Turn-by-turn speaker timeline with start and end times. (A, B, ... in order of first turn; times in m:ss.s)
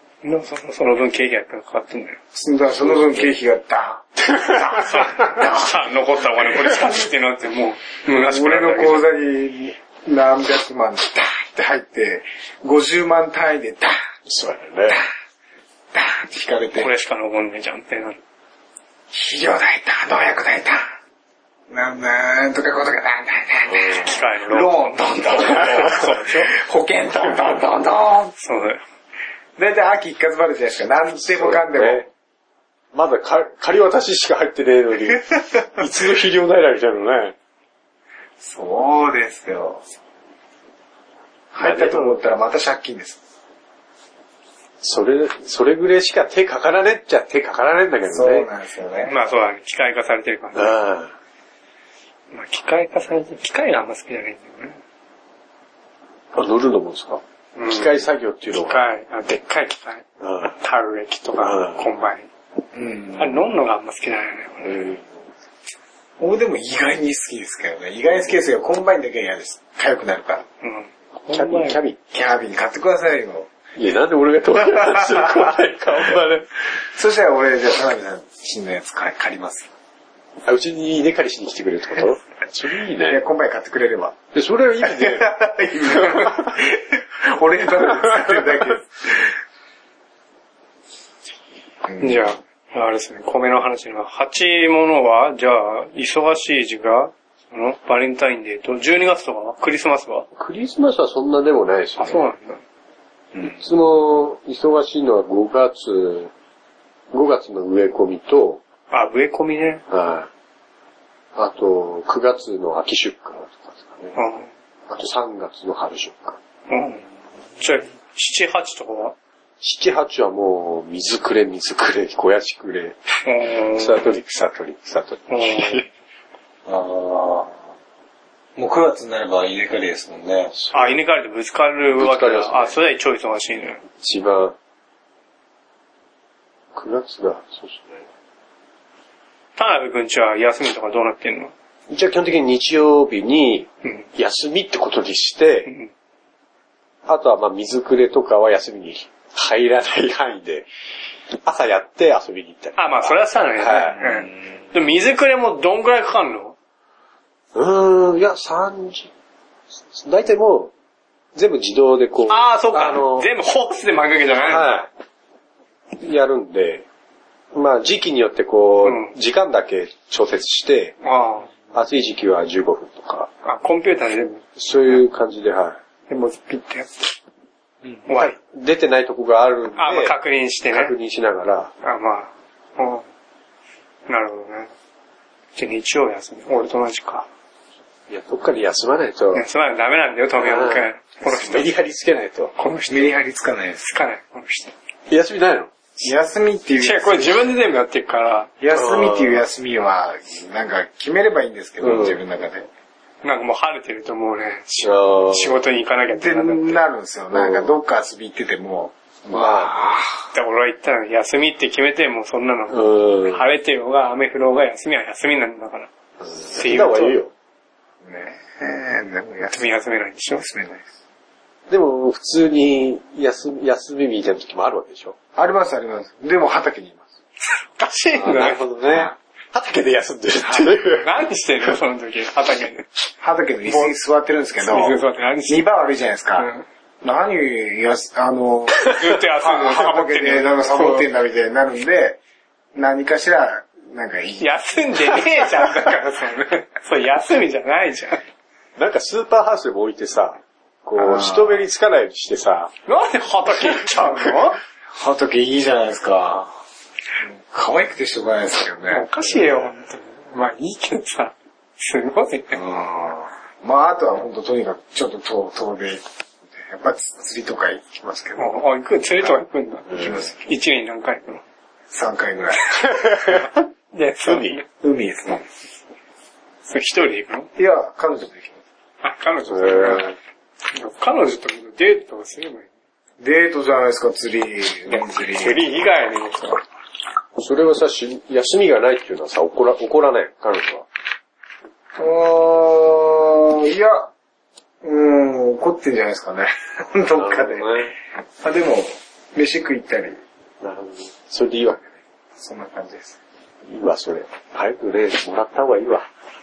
0:00.2-0:02.2 A
0:02.3-0:05.7 B
0:02.7-0:03.4 C
0:04.8-0:09.1 A
0:08.1-0:14.1 B
0:14.3-0:15.0 C
0:15.9-0:16.9 B
0:16.8-0:18.2 A
0:19.1-0:20.9 B
0:21.7-0:28.3 B
0:23.6-0:24.1 C
0:23.9-0:26.5 A
0:28.4-0:28.8 A
0:29.6-0:32.1 B
0:31.1-0:32.1 C
0:32.9-0:37.4 C
0:38.4-0:39.8 B
0:41.5-0:43.2 B
0:41.6-0:42.2 C
0:44.8-0:48.5 C
0:48.1-0:49.2 B
0:49.1-0:50.8 A
0:50.6-0:51.1 C
0:52.3-0:54.8 A
0:56.3-0:58.9 C
0:57.6-0:58.0 A
0:58.5-1:00.0 A
1:00.2-1:00.6 C
1:00.6-1:02.3 A
1:01.4-1:01.9 C
1:02.7-1:03.4 B
1:03.2-1:04.9 A
1:04.6-1:05.1 C
1:06.2-1:10.4 B
1:10.6-1:11.8 A
1:11.3-1:12.0 C
1:12.1-1:13.5 B
1:13.8-1:16.5 C
1:14.7-1:15.5 B
1:16.8-1:19.7 B
1:20.4-1:23.2 C
1:23.1-1:24.2 B
1:24.3-1:25.4 C
1:24.8-1:29.4 B
1:25.9-1:26.5 C
1:28.0-1:28.6 C
1:31.9-1:32.3 B
1:32.0-1:40.3 A
1:40.4-1:42.3 C
1:42.0-1:42.6 A
1:43.4-1:46.3 C
1:47.1-1:48.6 C
1:48.9-1:49.8 A
1:49.9-1:50.3 C
1:51.4-1:54.2 C
1:54.1-1:54.5 A
1:54.9-1:56.4 C
1:56.7-1:57.0 A
1:57.6-1:59.2 A
1:59.6-2:03.0 C
2:03.2-2:04.0 A
2:03.7-2:05.9 C
2:05.3-2:05.9 A
2:06.6-2:07.6 B
2:08.6-2:10.5 B
2:10.5-2:11.0 C
2:10.7-2:13.8 A
2:12.0-2:12.8 C
2:14.0-2:14.6 C
2:16.7-2:18.0 C
2:19.6-2:21.5 A
2:21.9-2:25.7 C
2:25.6-2:25.9 A
2:27.1-2:30.7 C
2:31.3-2:34.0 C
2:32.8-2:36.6 A
2:37.5-2:39.1 C
2:39.9-2:40.7 C
2:41.4-2:43.3 C
2:42.3-2:44.8 A
2:44.4-2:44.9 C
2:45.9-2:46.8 C
2:47.5-2:50.9 C
2:48.8-2:49.1 A
2:51.0-2:51.5 A
2:51.7-2:53.3 C
2:53.4-2:54.4 A
2:54.6-2:55.8 C
2:56.1-2:56.9 A
2:58.1-2:58.4 A
2:58.1-3:00.2 C
2:59.8-3:00.9 A
3:00.7-3:01.7 C
3:01.8-3:03.0 A
3:04.1-3:04.7 A
3:05.6-3:07.3 A
3:08.1-3:09.4 C
3:09.3-3:11.7 A
3:10.4-3:12.5 C
3:12.6-3:13.1 A
3:12.9-3:13.8 B
3:13.8-3:14.7 A
3:15.1-3:15.7 C
3:16.0-3:17.5 B
3:16.8-3:18.5 A
3:18.6-3:22.7 B
3:18.7-3:19.4 C
3:21.8-3:22.2 C
3:23.2-3:26.8 A
3:24.8-3:25.6 C
3:26.1-3:30.3 B
3:27.3-3:27.7 C
3:29.3-3:29.8 C
3:30.3-3:35.9 A
3:32.7-3:33.4 C
3:36.2-3:37.3 C
3:36.5-3:37.2 A
3:38.0-3:39.6 B
3:39.5-3:40.4 A
3:40.4-3:40.9 B
3:41.7-3:45.2 C
3:45.4-3:47.0 B
3:47.8-3:48.6 A
3:48.1-3:51.1 C
3:48.8-3:49.1 B
3:50.6-3:52.9 A
3:53.2-3:56.5 B
3:53.7-3:53.9 A
3:54.6-3:55.6 A
3:56.4-3:56.6 A
3:57.0-4:02.2 B
3:58.8-4:01.1 A
4:02.7-4:05.4 B
4:04.4-4:08.2 A
4:08.8-4:12.7 C
4:11.0-4:11.6 B
4:12.9-4:14.6 A
4:15.0-4:16.5 B
4:17.2-4:19.7 B
4:18.9-4:22.6 A
4:22.5-4:26.0 B
4:26.6-4:28.6 B
4:28.4-4:31.4 A
4:29.2-4:30.4 B
4:31.9-4:32.8 B
4:33.9-4:34.6 A
4:34.2-4:34.6 C
4:34.8-4:35.4 B
4:36.6-4:37.5 A
4:37.6-4:38.6 B
4:39.0-4:40.1 A
4:39.5-4:40.1 C
4:40.7-4:42.7 A
4:43.2-4:45.6 B
4:44.9-4:46.6 A
4:47.4-4:50.9 C
4:52.0-4:54.1 B
4:54.8-4:57.8 B
4:57.1-4:58.0 C
4:58.4-5:00.2 B
5:00.6-5:01.8 C
5:02.4-5:03.2 B
5:03.6-5:06.1 C